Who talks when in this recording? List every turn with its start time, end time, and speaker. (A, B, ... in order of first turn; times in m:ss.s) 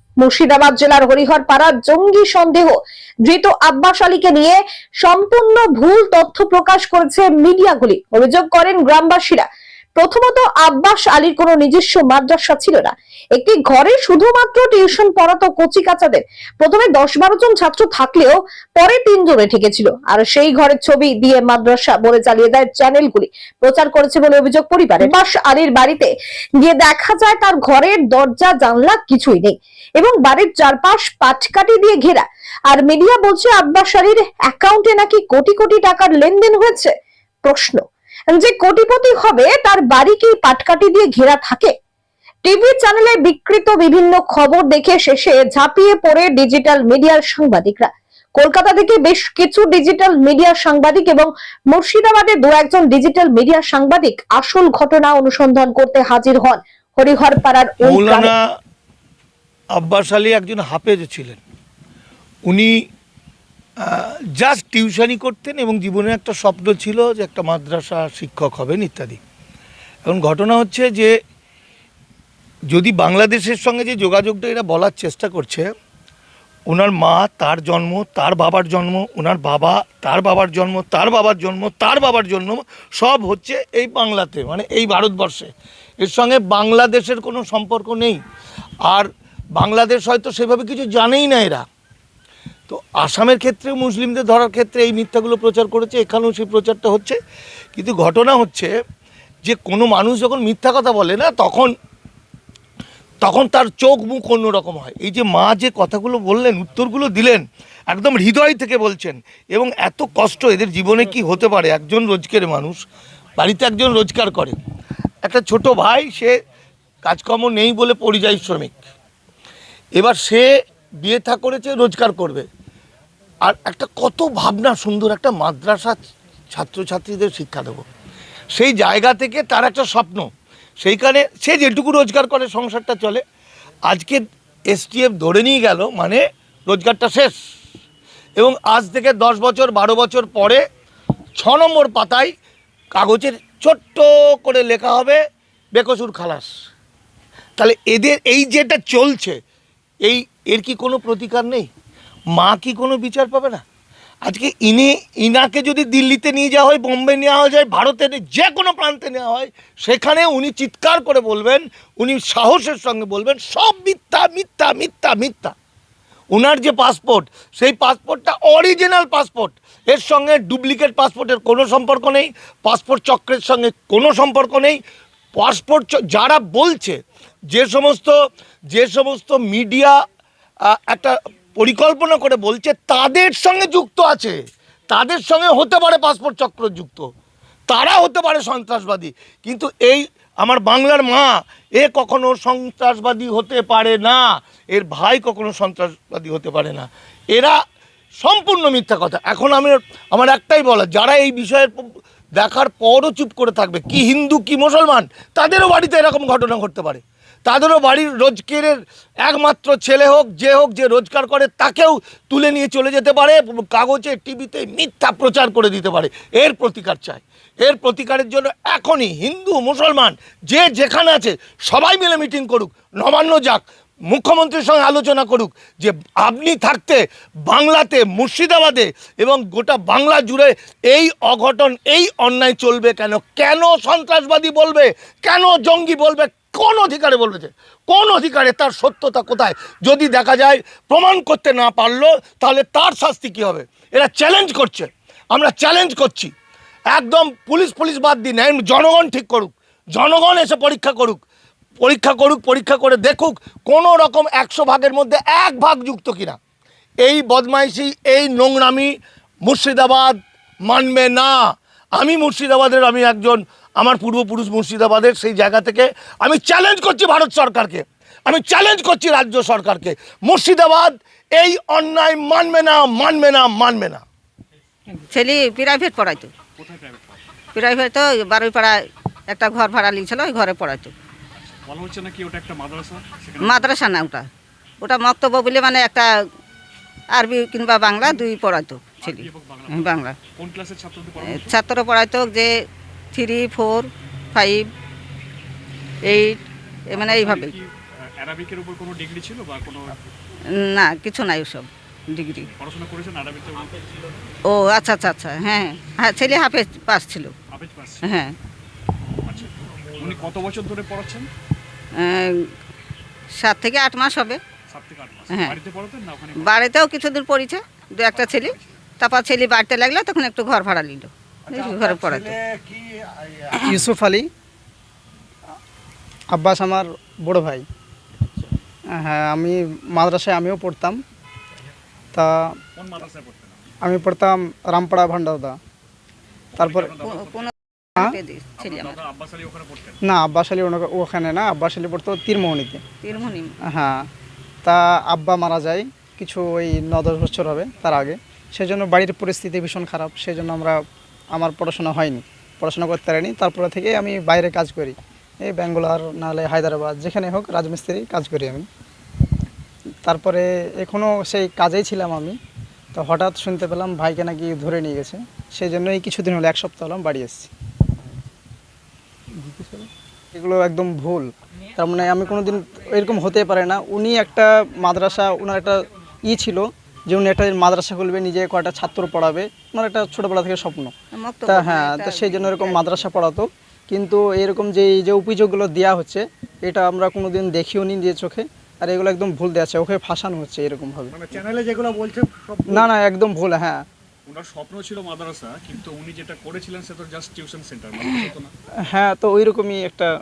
0:00.2-0:36.9 A
0:37.4-0:41.7 A
0:42.4-0:58.3 A
0:57.8-0:58.4 B
0:59.8-1:01.4 B
1:02.5-1:02.8 B
1:03.8-1:09.2 B
1:10.0-1:11.1 B
1:12.7-1:15.7 B
1:16.7-1:25.5 B
1:26.0-1:28.2 B
1:28.9-1:31.6 B
1:32.7-1:37.2 B
1:37.8-1:38.7 B
1:39.5-1:41.7 B
1:43.2-1:52.8 B
1:53.4-1:54.6 B
1:55.2-1:56.4 B
1:57.0-1:58.8 B
2:00.0-2:00.5 B
2:01.0-2:02.5 B
2:03.4-2:06.0 B
2:06.5-2:07.8 B
2:08.5-2:10.3 B
2:10.8-2:13.2 B
2:13.9-2:17.4 B
2:18.4-2:20.6 B
2:21.4-2:22.3 B
2:23.0-2:25.2 B
2:25.7-2:26.5 B
2:27.6-2:29.4 B
2:30.0-2:31.7 B
2:32.3-2:33.6 B
2:34.2-2:45.5 B
2:46.3-2:54.8 B
2:55.4-2:57.0 B
2:57.5-2:58.2 B
2:58.7-3:00.0 B
3:00.7-3:04.4 B
3:04.9-3:07.1 B
3:07.7-3:17.6 B
3:18.2-4:06.3 B
4:06.9-4:11.2 B
4:11.8-4:16.4 B
4:17.0-4:34.0 B
4:35.1-4:36.4 C
4:36.4-4:37.2 D
4:37.6-4:40.9 C
4:41.4-4:43.8 D
4:43.4-4:44.3 C
4:44.8-4:46.1 C
4:47.1-4:50.2 C
4:49.0-4:51.6 D
4:51.2-4:52.5 C
4:53.1-4:54.7 C
4:56.1-4:57.6 C
4:56.9-5:00.0 D
5:00.6-5:02.5 C
5:02.4-5:03.9 D
5:04.4-5:07.4 C
5:07.5-5:08.3 D
5:08.0-5:08.4 C
5:09.2-5:11.3 D
5:12.0-5:12.5 C
5:13.4-5:14.4 C
5:14.7-5:16.7 D
5:16.4-5:22.6 C
5:18.1-5:18.7 D
5:23.6-5:24.3 E
5:26.3-5:27.6 E
5:29.0-5:31.0 E
5:32.1-5:32.5 E
5:32.8-5:33.7 D
5:33.8-5:35.6 E
5:36.5-5:37.5 D
5:36.6-5:36.9 E
5:37.0-5:39.0 C
5:38.6-5:40.0 D
5:40.0-5:42.8 E
5:43.0-5:43.6 C
5:43.7-5:44.0 E
5:44.6-5:50.8 E
5:51.3-5:58.7 E
6:00.0-6:02.4 E
6:02.9-6:07.5 E
6:09.4-6:20.9 E
6:21.1-6:22.9 C
6:21.4-6:31.2 E
6:31.1-6:32.9 D
6:32.7-6:33.8 E
6:34.3-6:38.5 D
6:38.9-6:40.1 E